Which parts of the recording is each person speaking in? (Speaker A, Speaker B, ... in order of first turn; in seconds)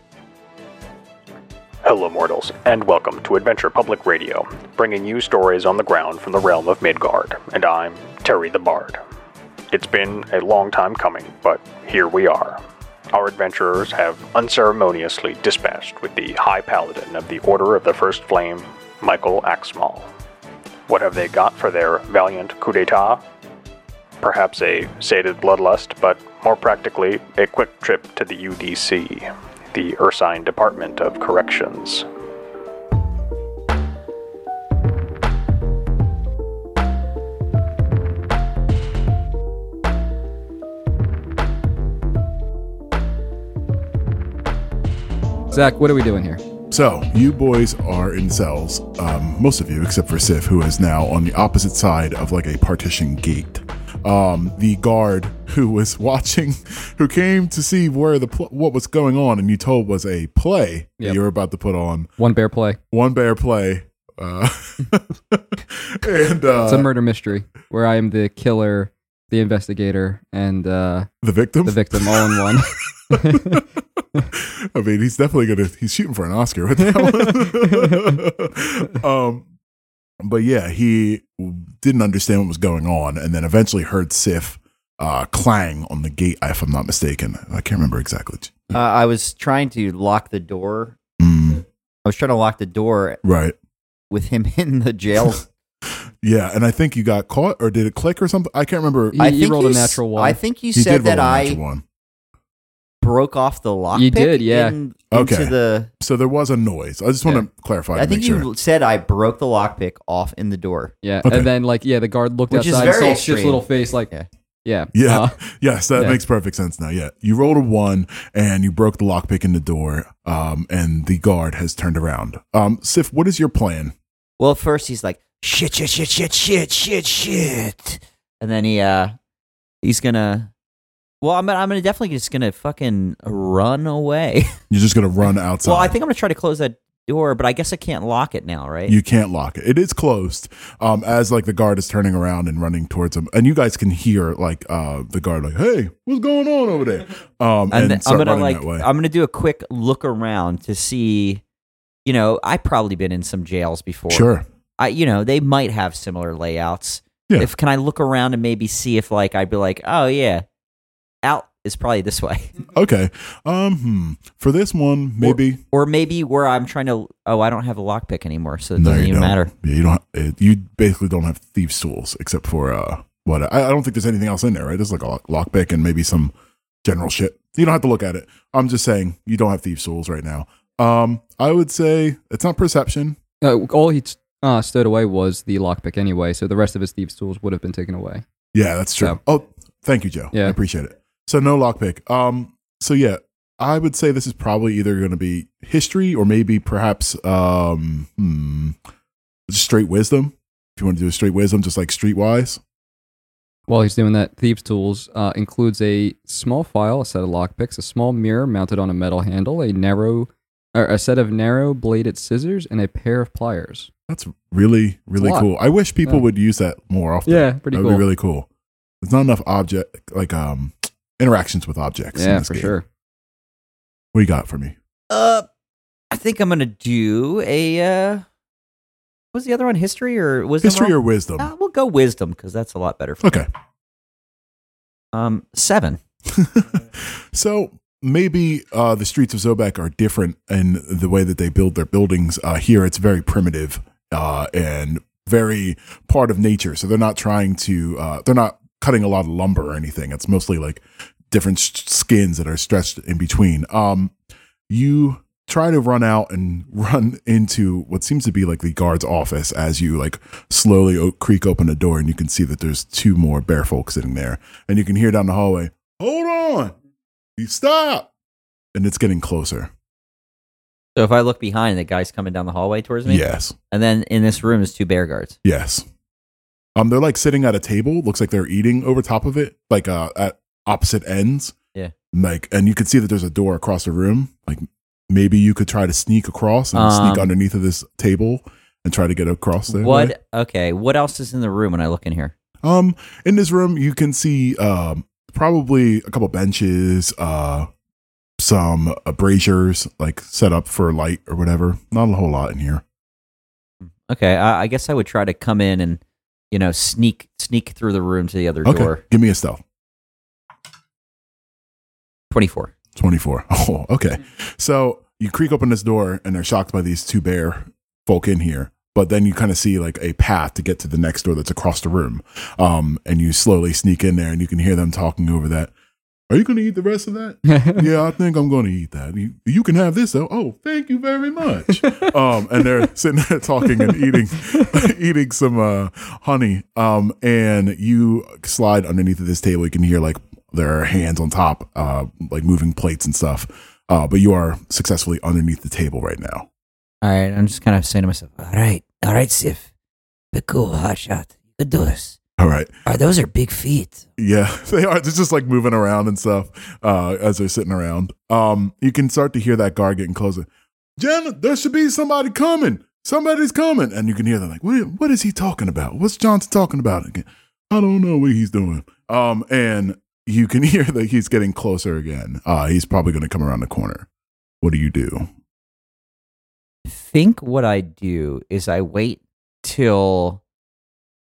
Speaker A: 1.8-9.0, 9.7-12.6, 13.1-20.1, 20.9-23.2, 24.2-32.0
Speaker B: 45.5-46.4, 62.2-62.8, 66.7-71.1, 71.6-73.6, 76.9-78.2, 99.1-100.4, 103.9-104.8, 111.0-114.1, 114.6-115.3, 115.9-116.2, 183.4-188.2, 203.7-213.9, 215.2-215.5, 217.2-218.1, 222.1-222.8, 327.5-327.8
Speaker C: 46.7-62.1, 62.9-66.9, 71.2-73.6, 74.3-79.5, 80.2-88.8, 91.2-91.6, 93.2-93.5, 96.2-99.4, 100.7-101.8, 105.1-108.5, 111.2-111.5, 114.9-123.9, 134.7-136.0, 138.9-148.9, 154.1-154.4, 162.7-165.6, 168.8-176.3, 176.8-183.2, 188.5-198.8, 199.5-202.6, 214.1-218.5, 219.0-222.8, 224.1-224.8, 230.6-231.5, 233.2-233.5, 236.3-254.1, 254.7-266.7, 267.4-268.1, 268.7-269.7, 273.0-273.6, 275.4-275.8, 276.8-281.5, 282.1-290.1, 292.6-297.7, 298.4-302.8, 308.6-309.6, 312.9-325.7, 326.3-346.5, 352.4-352.7, 354.2-374.1, 374.6-375.3
Speaker D: 88.7-90.9, 92.0-93.2, 94.1-95.4, 99.1-101.6, 103.0-105.9, 107.9-110.9, 112.5-114.3, 124.4-129.2, 129.8-130.5, 131.2-134.6, 135.6-138.9, 147.7-151.4, 152.0-154.3, 154.8-160.4, 161.2-162.5, 165.2-169.5, 225.1-225.5, 226.1-228.2, 229.3-233.3, 235.1-236.0, 270.9-275.4, 286.7-287.3, 289.7-292.3, 303.8-309.0, 312.3-312.7, 347.0-349.6, 350.3-352.1, 352.9-354.0, 376.9-380.4